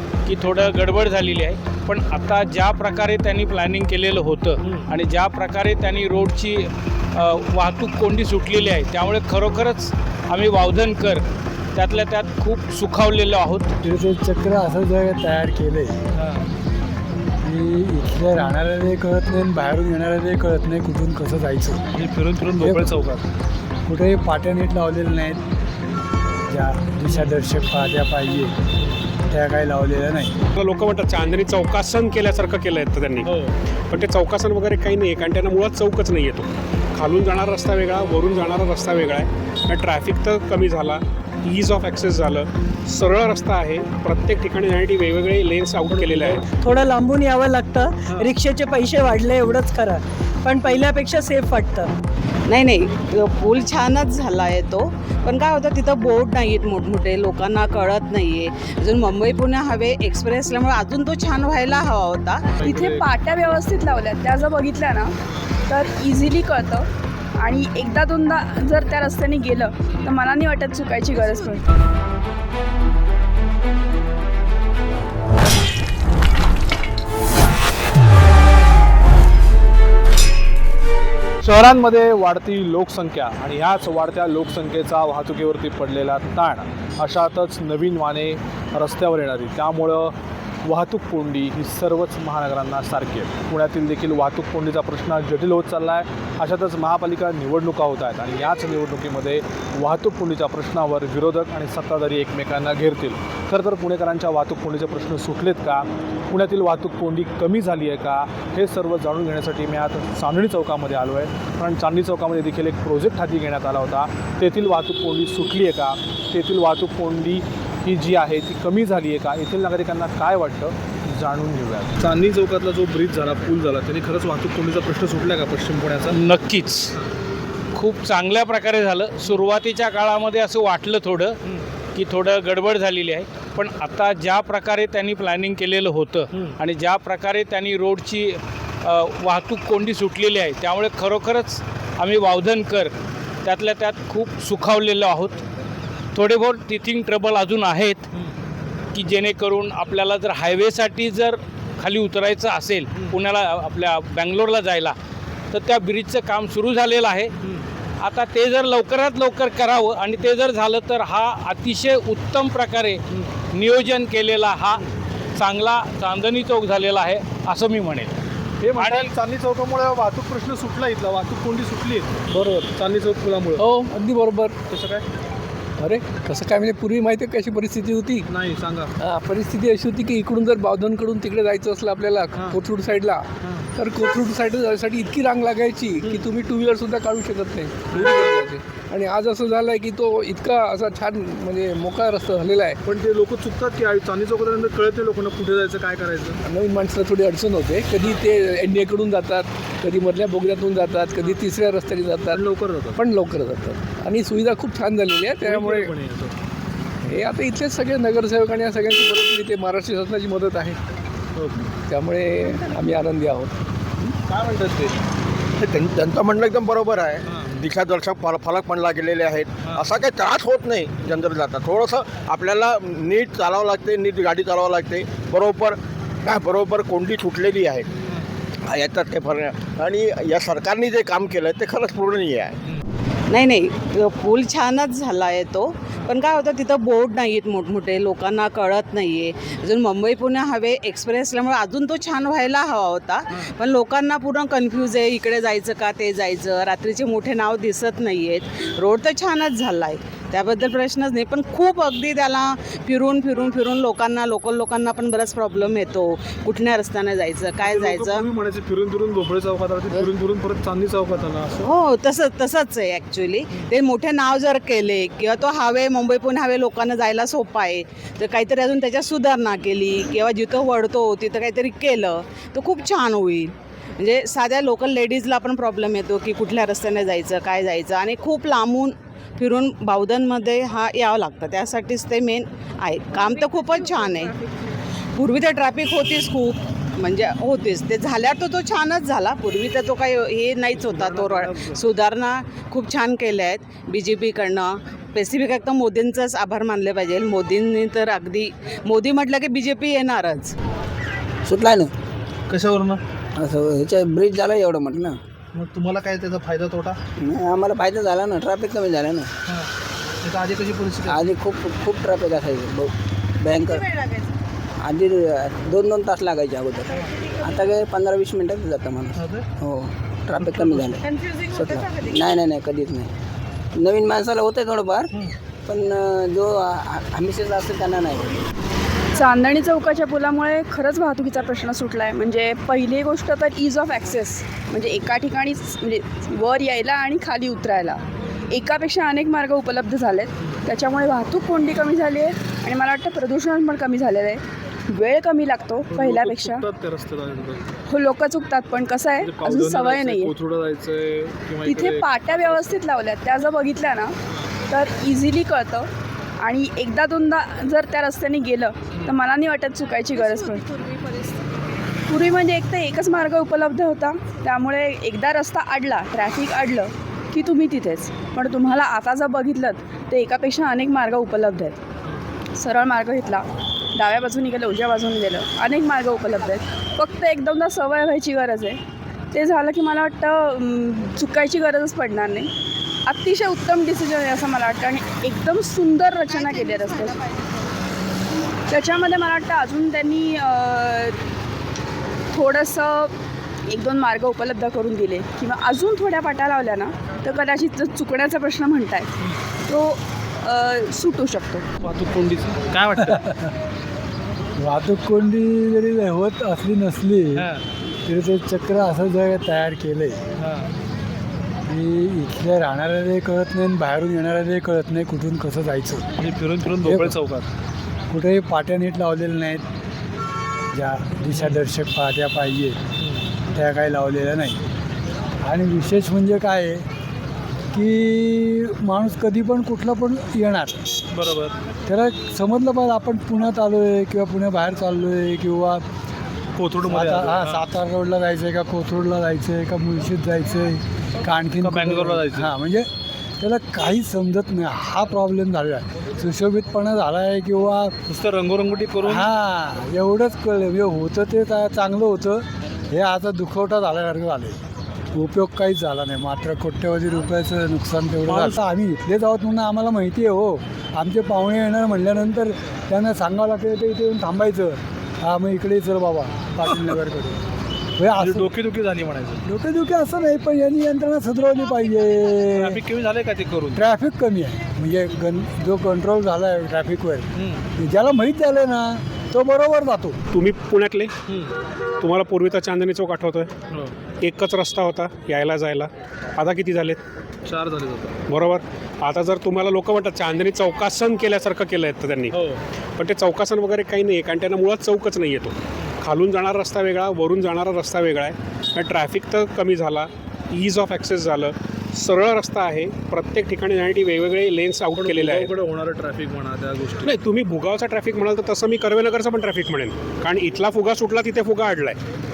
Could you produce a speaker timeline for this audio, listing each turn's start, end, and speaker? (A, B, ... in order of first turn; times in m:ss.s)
0:00.2-0:13.7 A
0:13.8-0:16.0 B
0:17.4-0:21.8 B
0:22.0-0:23.2 C
0:22.6-0:23.0 B
0:23.8-0:25.4 B
0:26.5-0:28.5 B
0:29.3-0:30.4 B
0:30.6-0:33.3 D
0:33.9-0:46.4 D
0:46.0-0:46.3 C
0:46.6-0:51.9 E
0:52.5-1:02.5 F
1:02.6-1:05.1 G
1:02.7-1:03.0 C
1:05.7-1:06.9 G
1:07.4-1:11.6 G
1:21.4-2:06.2 C
2:06.1-2:06.9 A
2:07.7-2:11.4 A
2:11.9-2:22.9 A
2:23.4-2:25.4 A
2:26.1-2:28.0 A
2:28.9-2:35.0 A
2:35.5-2:37.3 A
2:38.0-2:44.8 A
2:45.3-2:48.1 A
2:48.6-2:53.6 C
2:48.7-2:49.1 A
2:53.6-2:54.5 H
2:54.7-2:55.0 C
2:55.8-2:58.3 H
2:58.3-2:58.9 C
2:59.0-3:12.8 H
3:12.8-3:16.4 C
3:16.4-3:25.9 H
3:22.3-3:23.0 C
3:25.4-3:26.3 C
3:27.0-3:30.8 H
3:31.8-3:33.6 H
3:34.3-3:35.0 C
3:35.6-3:47.9 I
3:48.7-3:52.5 I
3:53.3-4:18.3 F
4:17.6-4:21.6 C
4:21.6-4:44.3 F
4:45.2-5:00.5 F
4:50.9-4:51.7 C
5:01.5-5:01.9 J
5:02.5-5:03.0 C
5:03.4-5:05.2 J
5:05.5-5:07.0 C
5:07.2-5:09.3 J
5:10.2-5:11.1 C
5:11.1-5:13.8 J
5:14.8-5:23.1 J
5:23.8-5:25.1 J
5:25.7-5:28.4 J
5:29.1-5:46.7 G
5:45.9-5:47.6 C
5:47.9-5:50.3 G
5:49.2-5:52.7 C
5:51.6-5:54.1 G
5:54.7-5:55.9 G
5:56.4-6:00.7 G
6:02.1-6:11.8 G
6:12.6-6:18.8 G
6:19.3-6:22.5 G
6:23.0-6:27.2 G
6:28.7-6:31.2 G
6:32.3-6:33.1 G
6:33.7-6:39.1 G
6:39.7-6:41.6 G
6:41.8-6:43.2 C
6:43.1-6:43.5 B
6:44.6-6:47.5 B
6:48.0-6:50.2 B
6:51.6-6:56.0 B
6:56.2-6:57.4 C
6:56.8-6:57.2 B
6:58.1-6:59.6 B
7:00.7-7:02.8 B
7:03.5-7:04.6 B
7:05.4-7:06.8 B
7:07.7-7:10.8 B
7:11.1-7:11.5 C
7:11.8-7:15.8 B
7:16.6-7:17.6 C
7:16.8-7:22.9 B
7:21.6-7:22.4 C
7:23.4-7:27.9 B
7:28.1-7:29.2 C
7:29.0-7:34.6 B
7:35.1-7:47.4 B
7:48.0-7:48.5 B
7:48.2-7:49.4 C
7:49.4-7:52.8 B
7:52.6-7:53.8 C
7:53.7-8:00.2 B
8:00.3-8:01.1 D
8:02.0-8:03.5 D
8:04.2-8:07.0 D
8:07.5-8:08.1 C
8:08.3-8:12.4 D
8:13.0-8:25.5 D
8:25.0-8:27.1 C
8:27.0-8:32.0 D